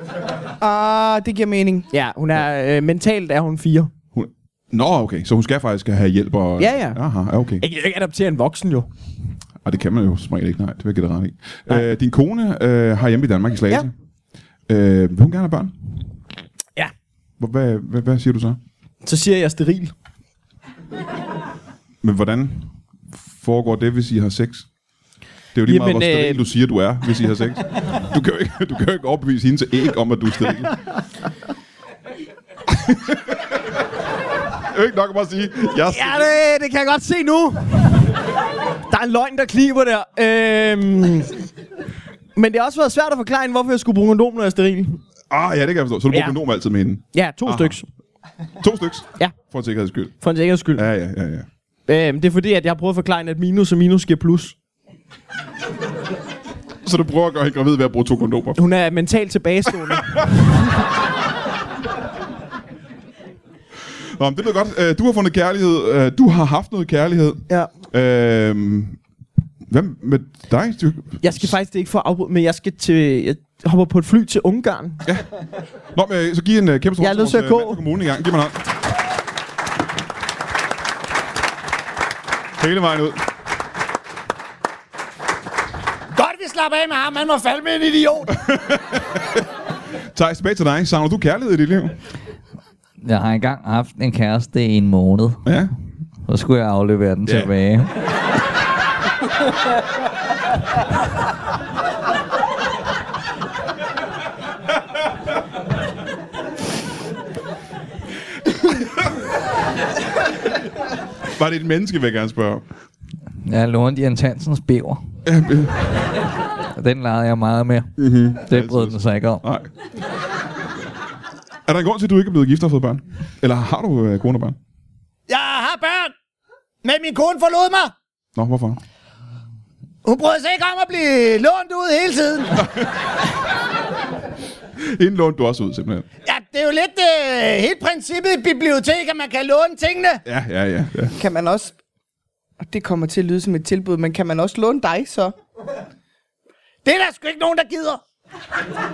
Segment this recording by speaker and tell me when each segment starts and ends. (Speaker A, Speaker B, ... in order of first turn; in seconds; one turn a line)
Speaker A: 0.6-1.9
Speaker B: 1.9-3.9
Speaker C: 4.1-7.6
Speaker B: 6.6-7.0
Speaker B: 7.6-8.9
Speaker C: 9.6-13.9
Speaker C: 14.7-15.7
Speaker C: 17.4-18.6
Speaker B: 19.0-19.9
Speaker C: 22.0-22.7
Speaker C: 23.3-24.7
Speaker C: 25.5-30.7
Speaker B: 25.6-26.4
Speaker C: 32.6-33.5
Speaker C: 34.5-36.4
Speaker B: 35.9-38.2
Speaker B: 38.9-41.4
Speaker B: 42.4-45.0
Speaker C: 45.3-47.8
Speaker B: 46.1-46.4
Speaker B: 47.1-47.9
Speaker C: 48.6-50.1
Speaker B: 50.2-50.8
Speaker C: 50.7-51.5
Speaker B: 51.9-54.5
Speaker C: 56.8-58.6
Speaker B: 58.5-60.7
Speaker C: 59.9-60.2
Speaker C: 64.2-69.0
Speaker C: 69.7-71.5
Speaker B: 71.2-75.0
Speaker C: 75.9-78.6
Speaker B: 77.0-77.8
Speaker C: 82.6-83.2
Speaker D: 86.1-88.4
Speaker C: 88.4-89.4
Speaker C: 90.1-92.0
Speaker E: 93.0-95.5
Speaker C: 95.4-95.7
Speaker E: 96.3-97.9
Speaker C: 111.3-112.6
Speaker E: 113.4-115.0
Speaker C: 115.2-116.0
Speaker E: 116.7-119.4
Speaker C: 118.0-119.7
Speaker C: 121.7-124.6
Speaker D: 125.3-126.1
Speaker D: 126.8-127.9
Speaker C: 128.3-128.8
Speaker D: 130.0-132.7
Speaker C: 132.6-132.9
Speaker C: 134.8-136.1
Speaker D: 136.2-140.2
Speaker C: 140.2-141.2
Speaker A: 141.2-141.7
Speaker A: 142.6-145.3
Speaker D: 146.8-148.0